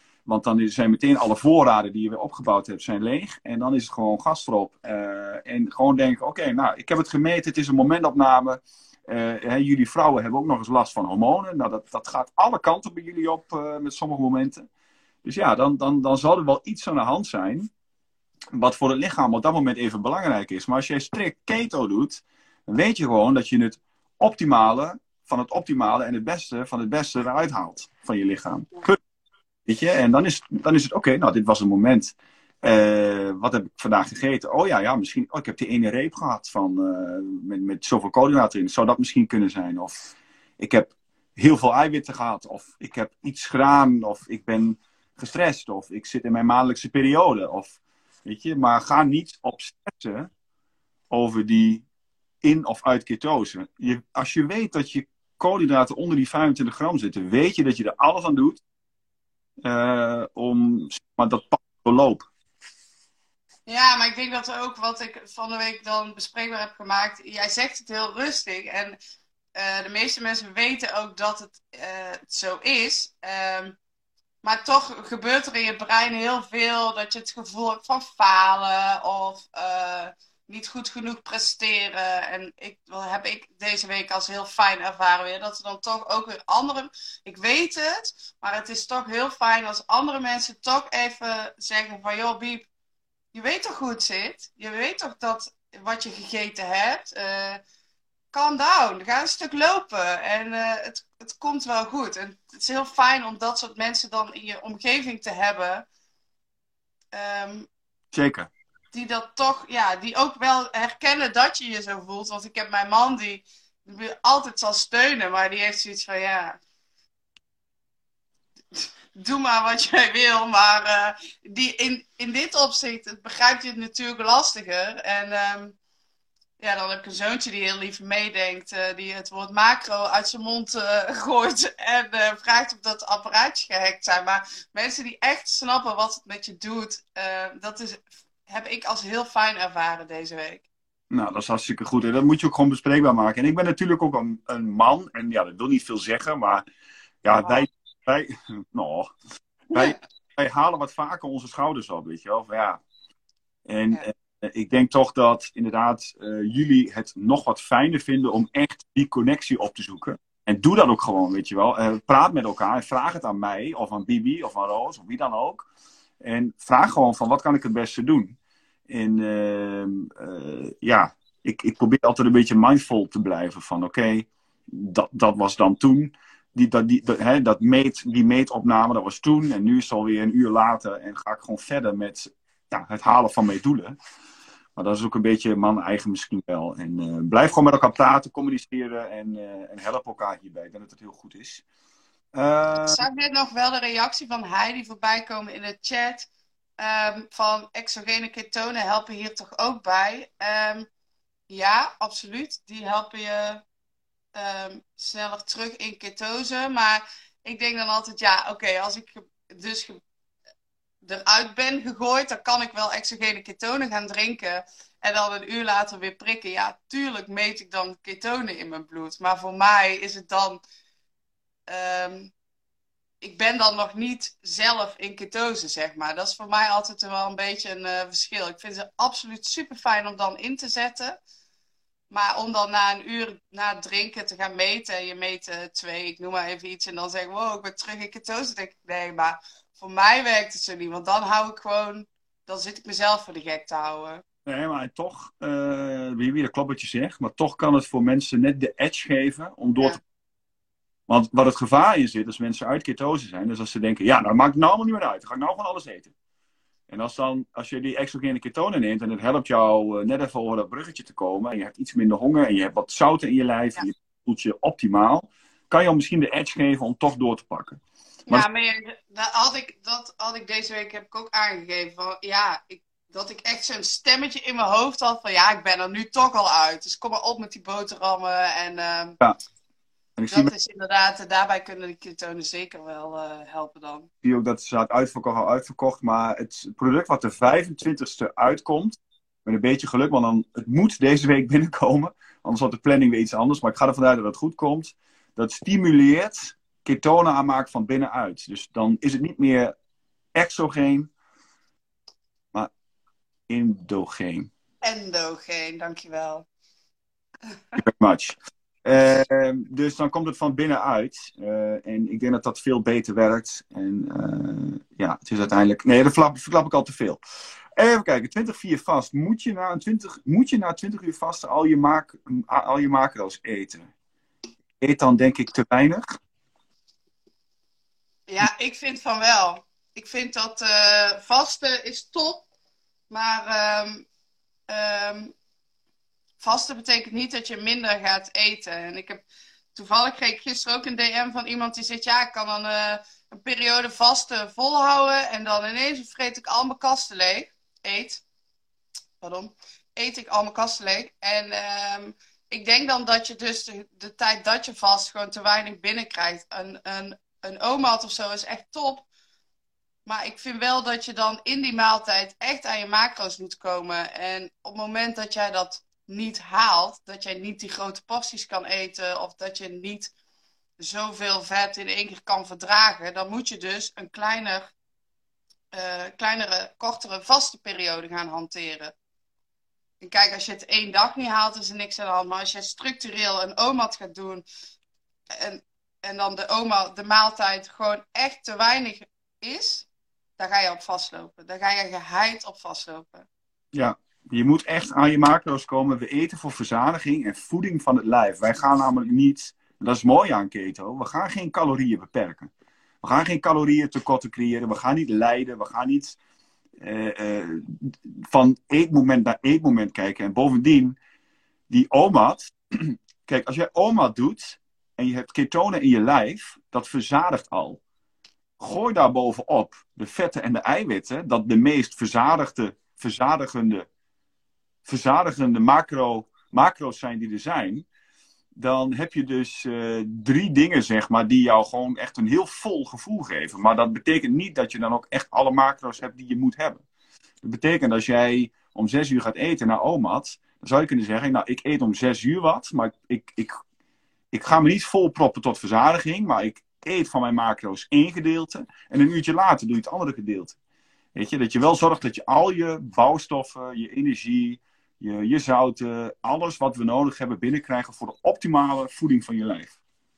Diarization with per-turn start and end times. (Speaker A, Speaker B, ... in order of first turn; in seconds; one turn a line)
Speaker A: 0.2-14.7
Speaker A: 15.2-17.7
Speaker A: 18.5-29.0
Speaker A: 29.7-50.3
Speaker A: 51.1-51.8
Speaker A: 52.4-58.6
Speaker A: 59.6-62.3
Speaker B: 63.7-69.0
Speaker B: 69.5-73.8
Speaker B: 74.4-92.7
Speaker B: 93.3-97.6
Speaker B: 98.3-105.9
Speaker B: 107.1-107.7
Speaker A: 108.1-108.5
Speaker B: 108.9-116.6
Speaker B: 118.7-125.8
Speaker B: 126.6-140.7
Speaker A: 141.1-146.6
Speaker A: 147.2-149.1
Speaker B: 147.4-147.6
Speaker A: 149.7-152.8
Speaker A: 153.7-165.7
Speaker A: 166.2-168.3
Speaker A: 168.9-184.0
Speaker A: 184.8-191.6
Speaker A: 192.3-193.0
Speaker B: 192.8-200.9
Speaker B: 201.5-203.6
Speaker B: 204.3-210.0
Speaker B: 211.0-220.6
Speaker B: 221.7-222.3
Speaker B: 223.2-231.2
Speaker B: 232.1-244.2
Speaker A: 244.4-250.0
Speaker A: 251.1-256.1
Speaker A: 256.9-268.5
Speaker B: 268.3-279.2
Speaker A: 280.2-280.5
Speaker B: 280.3-284.1
Speaker A: 284.2-299.7
Speaker A: 300.3-301.1
Speaker A: 303.5-304.5
Speaker B: 304.8-306.5
Speaker B: 307.5-307.8
Speaker A: 307.8-317.2
Speaker A: 317.8-323.9
Speaker A: 324.8-326.0
Speaker B: 328.3-332.4
Speaker B: 333.1-334.1
Speaker B: 334.7-335.3
Speaker B: 336.4-348.2
Speaker B: 349.2-359.1
Speaker B: 360.1-370.1
Speaker B: 370.8-374.7
Speaker B: 375.7-378.9
Speaker B: 380.0-384.4
Speaker B: 385.3-389.9
Speaker B: 390.4-393.3
Speaker A: 393.7-402.5
Speaker A: 403.0-406.2
Speaker A: 406.8-411.0
Speaker A: 411.7-417.8
Speaker A: 418.6-423.9
Speaker A: 424.9-427.9
Speaker A: 428.6-436.8
Speaker A: 437.4-443.6
Speaker A: 444.3-450.5
Speaker A: 451.1-459.7